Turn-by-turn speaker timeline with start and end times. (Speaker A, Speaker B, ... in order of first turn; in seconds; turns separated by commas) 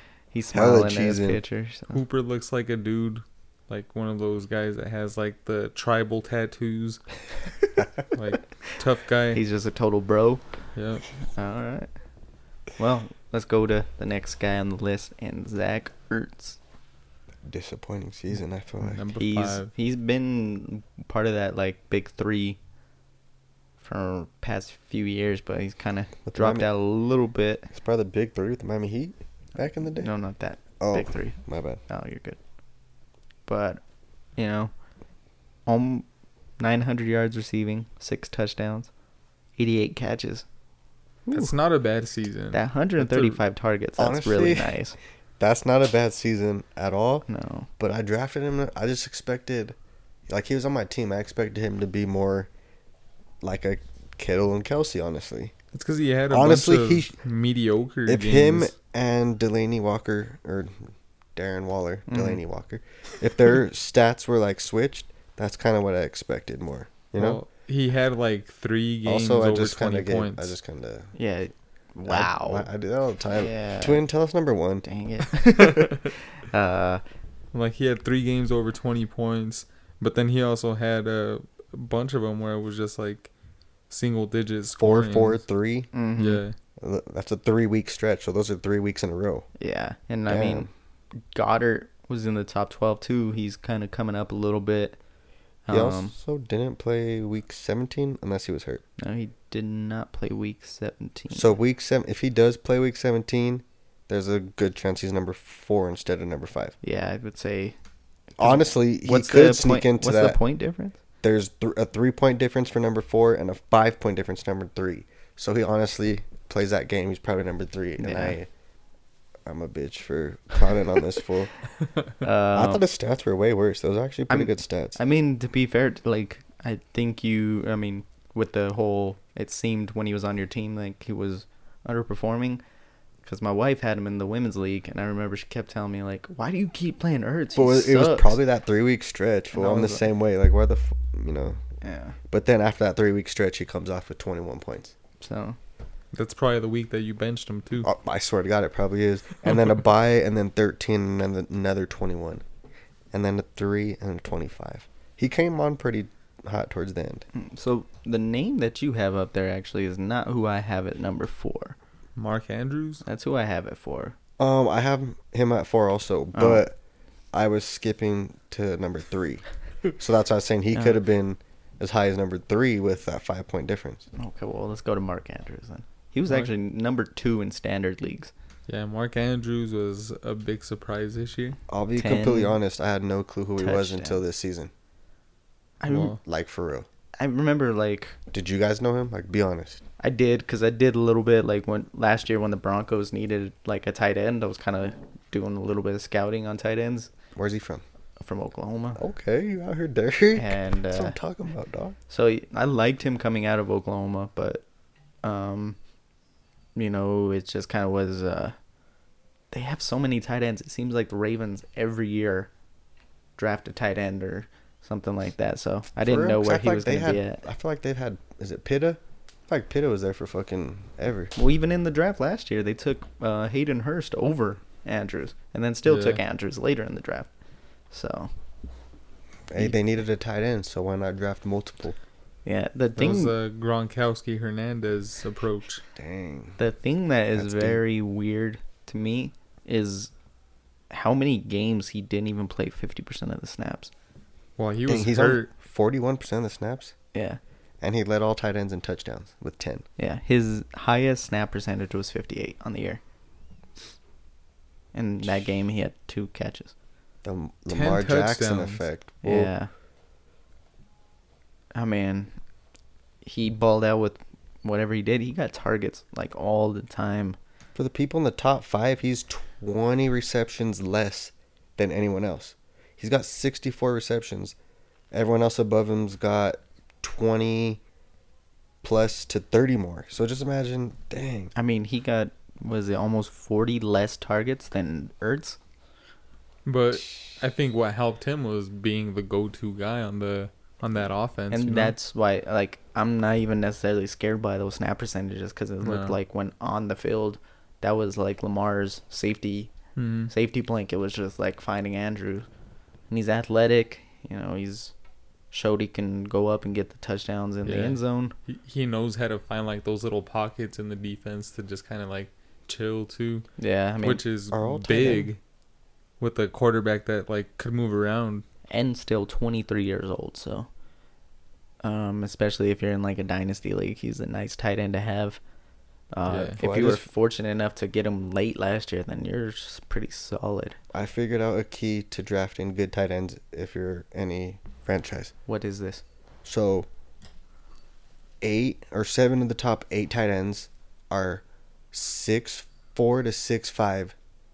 Speaker A: 0.3-2.0, Speaker B: 0.5-1.4, Speaker C: 1.9-7.0, Speaker C: 8.1-9.4, Speaker A: 9.3-10.4, Speaker C: 10.8-11.1, Speaker A: 11.3-11.9, Speaker A: 12.8-16.6, Speaker B: 17.4-19.0, Speaker C: 18.8-19.7, Speaker A: 19.1-22.6, Speaker A: 23.8-27.7, Speaker B: 26.3-26.7, Speaker B: 27.7-30.1, Speaker A: 30.0-32.4, Speaker B: 30.8-31.8, Speaker A: 33.5-33.8, Speaker A: 34.4-34.7, Speaker A: 35.6-36.1, Speaker A: 36.6-38.9, Speaker A: 39.6-40.5, Speaker A: 41.3-41.5, Speaker C: 41.3-43.4, Speaker A: 42.5-45.0, Speaker B: 44.0-44.8, Speaker B: 45.4-47.3, Speaker A: 47.3-47.7, Speaker B: 47.8-49.8, Speaker B: 50.3-52.5, Speaker B: 53.4-55.5, Speaker C: 55.7-58.7, Speaker B: 56.3-57.1, Speaker B: 58.1-67.4, Speaker A: 62.1-62.4, Speaker C: 67.1-70.5, Speaker B: 69.0-71.1, Speaker A: 71.1-72.7, Speaker B: 72.1-74.8, Speaker A: 73.3-74.0, Speaker A: 74.8-77.0, Speaker C: 77.5-83.3, Speaker C: 83.9-85.4, Speaker B: 84.8-85.9, Speaker A: 85.9-86.4, Speaker C: 86.2-86.5, Speaker B: 86.8-89.5, Speaker A: 89.6-90.7, Speaker B: 90.3-90.7, Speaker A: 91.3-95.0, Speaker A: 95.7-96.1, Speaker B: 95.7-98.8, Speaker A: 99.0-101.5, Speaker B: 101.3-106.8, Speaker A: 106.8-107.8, Speaker B: 108.4-110.4, Speaker A: 108.4-111.0, Speaker B: 111.2-118.5, Speaker A: 118.0-118.4, Speaker B: 119.5-121.5, Speaker A: 122.2-122.8, Speaker B: 122.5-125.0, Speaker A: 124.3-132.6, Speaker A: 133.2-138.4, Speaker B: 137.5-141.6, Speaker A: 139.5-140.1, Speaker A: 141.8-142.2, Speaker B: 142.3-144.9, Speaker A: 145.2-145.6, Speaker C: 146.1-147.9, Speaker B: 147.8-152.4, Speaker B: 153.1-157.3, Speaker A: 157.3-161.8, Speaker C: 162.2-163.0, Speaker A: 163.1-164.2, Speaker B: 164.4-166.8, Speaker A: 166.3-166.6, Speaker B: 167.3-169.4, Speaker B: 170.0-174.1, Speaker A: 170.7-171.0, Speaker A: 174.2-178.3, Speaker C: 178.7-181.6, Speaker B: 181.7-184.7, Speaker A: 182.0-182.6, Speaker A: 183.6-184.2, Speaker A: 185.8-186.2, Speaker B: 185.9-186.9, Speaker C: 185.9-186.2, Speaker A: 187.2-188.2, Speaker B: 188.3-189.8, Speaker A: 190.0-197.1, Speaker B: 197.3-197.8, Speaker A: 198.2-199.0, Speaker B: 199.0-202.0, Speaker A: 200.3-201.2, Speaker A: 202.1-204.6, Speaker A: 205.2-205.8, Speaker A: 206.8-208.6, Speaker A: 209.5-212.5, Speaker A: 213.4-217.4, Speaker B: 216.0-221.3, Speaker A: 221.3-227.3, Speaker C: 225.9-226.2, Speaker A: 227.9-228.3, Speaker B: 229.5-232.0, Speaker A: 232.4-233.3, Speaker C: 233.0-235.8, Speaker B: 235.9-236.6, Speaker A: 236.6-240.1, Speaker B: 237.3-237.8, Speaker A: 240.9-243.9, Speaker C: 244.6-245.5, Speaker B: 244.9-246.9, Speaker A: 247.1-247.4, Speaker B: 247.8-249.8, Speaker A: 250.0-253.0, Speaker A: 254.9-256.7, Speaker B: 257.2-259.5, Speaker C: 257.7-258.8, Speaker A: 259.2-259.7, Speaker A: 261.7-262.3, Speaker A: 263.2-267.4, Speaker B: 267.8-274.6, Speaker B: 275.1-277.8, Speaker B: 278.8-281.5, Speaker A: 281.6-285.6, Speaker C: 286.6-291.9, Speaker A: 291.5-299.7, Speaker C: 295.8-296.1, Speaker C: 300.0-300.3, Speaker A: 300.3-302.5, Speaker A: 303.1-304.9, Speaker A: 305.5-308.3, Speaker C: 307.6-313.5, Speaker A: 313.6-314.2, Speaker C: 314.0-315.4, Speaker B: 314.5-315.3, Speaker C: 316.2-318.4, Speaker A: 318.7-320.7, Speaker A: 321.8-325.4, Speaker A: 326.1-330.8, Speaker C: 326.3-326.6, Speaker B: 326.6-327.1, Speaker B: 330.9-335.3, Speaker A: 335.5-336.0, Speaker B: 336.4-336.9, Speaker B: 338.4-344.1